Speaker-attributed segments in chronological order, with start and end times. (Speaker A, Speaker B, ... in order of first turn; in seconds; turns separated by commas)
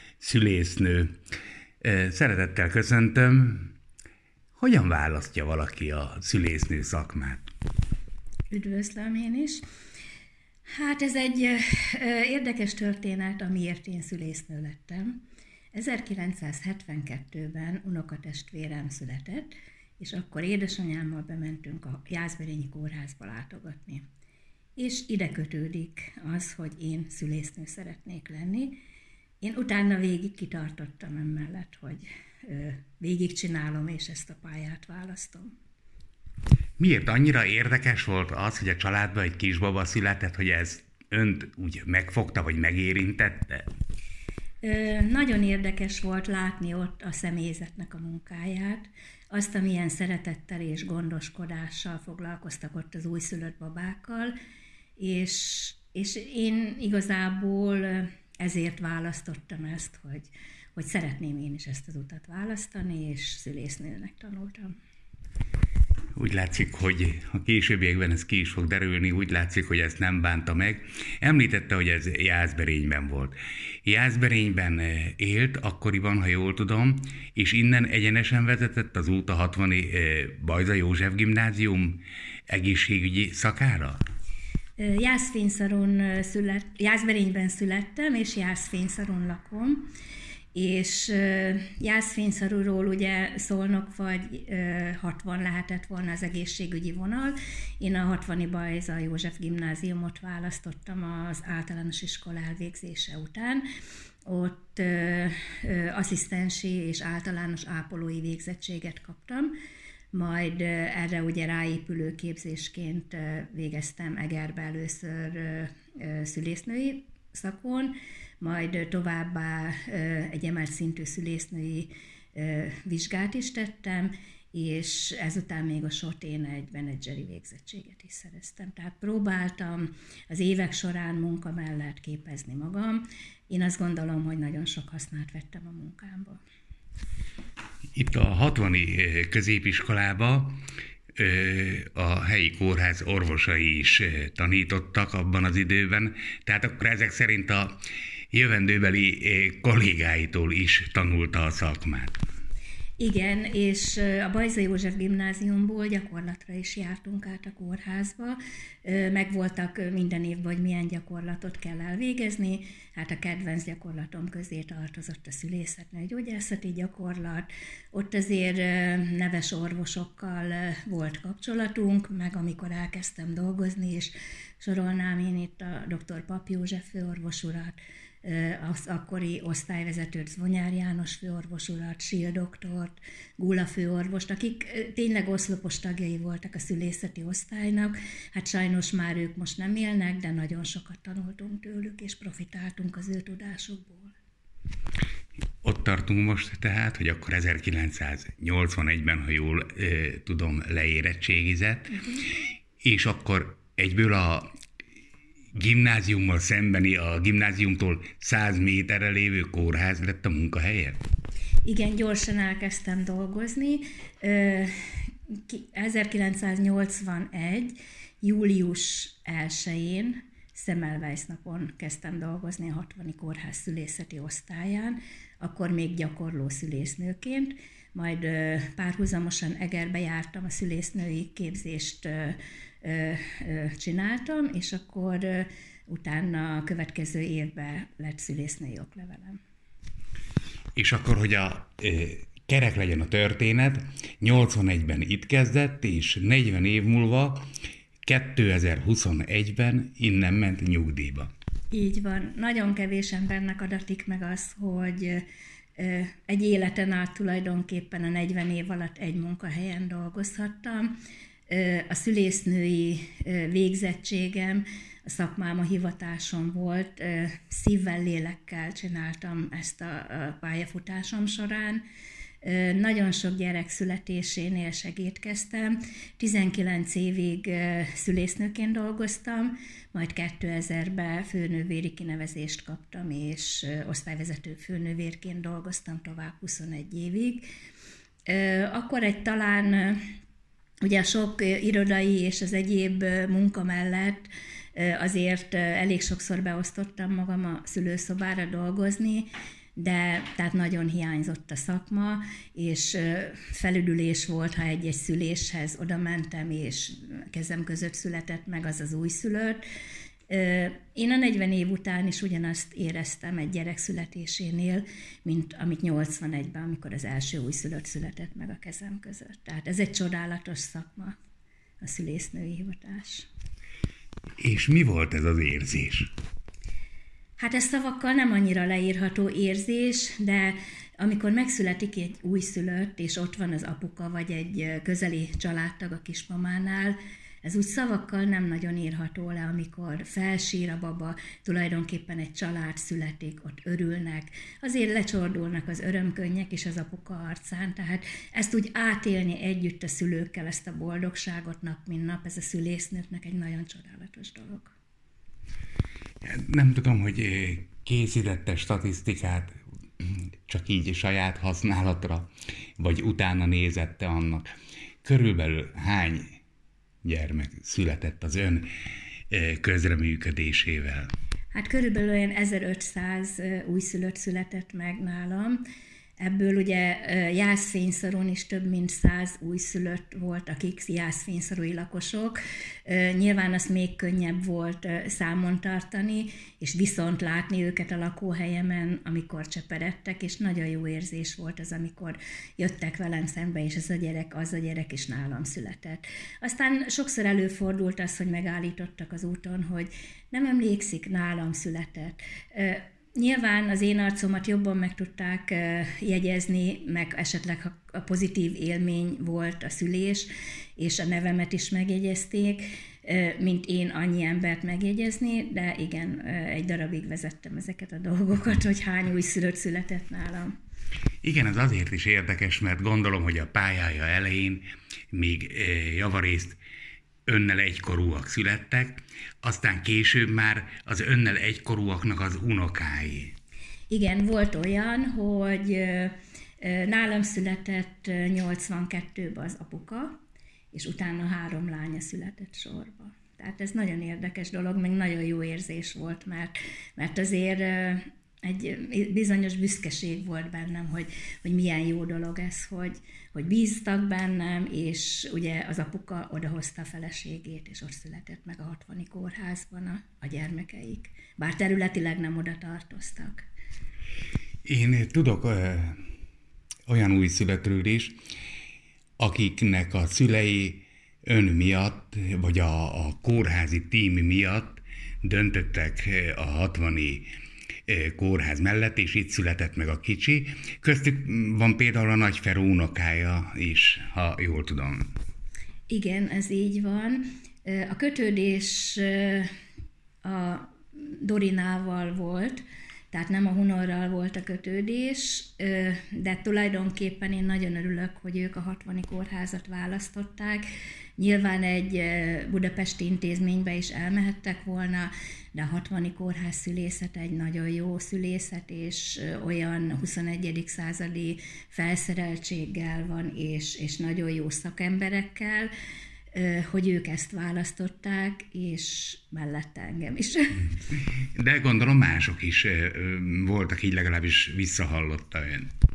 Speaker A: 0.2-1.2, Speaker A: 1.8-3.7, Speaker A: 4.6-7.5, Speaker B: 8.5-9.6, Speaker B: 10.7-15.2, Speaker B: 15.7-24.0, Speaker B: 24.8-28.8, Speaker B: 29.4-35.5, Speaker A: 36.8-43.7, Speaker B: 44.6-54.3, Speaker B: 55.0-64.8, Speaker A: 66.2-84.0, Speaker B: 84.8-89.9, Speaker B: 90.5-103.6, Speaker B: 104.3-109.5, Speaker B: 110.1-136.4, Speaker A: 137.9-140.6, Speaker A: 141.2-147.8, Speaker A: 148.3-152.2, Speaker B: 153.0-194.1, Speaker A: 195.6-202.0, Speaker A: 202.8-204.5, Speaker A: 205.6-211.0, Speaker B: 211.6-239.4, Speaker A: 240.8-247.4, Speaker A: 248.0-251.3, Speaker B: 251.7-255.2, Speaker B: 255.8-260.9, Speaker B: 261.5-271.8, Speaker B: 272.4-287.5, Speaker B: 288.3-290.0, Speaker B: 290.8-309.6, Speaker B: 310.3-321.2, Speaker B: 321.8-323.3, Speaker A: 324.4-326.1, Speaker B: 327.4-354.7, Speaker A: 356.2-364.4, Speaker A: 365.0-366.4, Speaker A: 367.0-368.7, Speaker A: 369.3-371.1, Speaker B: 371.5-375.6, Speaker B: 376.2-420.5, Speaker A: 421.2-426.6, Speaker A: 427.3-433.4, Speaker B: 433.9-440.2, Speaker B: 440.7-463.4, Speaker A: 464.6-466.0, Speaker A: 466.9-468.2, Speaker A: 469.2-477.3, Speaker A: 477.9-485.1, Speaker B: 485.9-489.5, Speaker B: 490.2-500.6, Speaker B: 501.2-515.7, Speaker B: 516.3-520.7, Speaker A: 521.2-525.7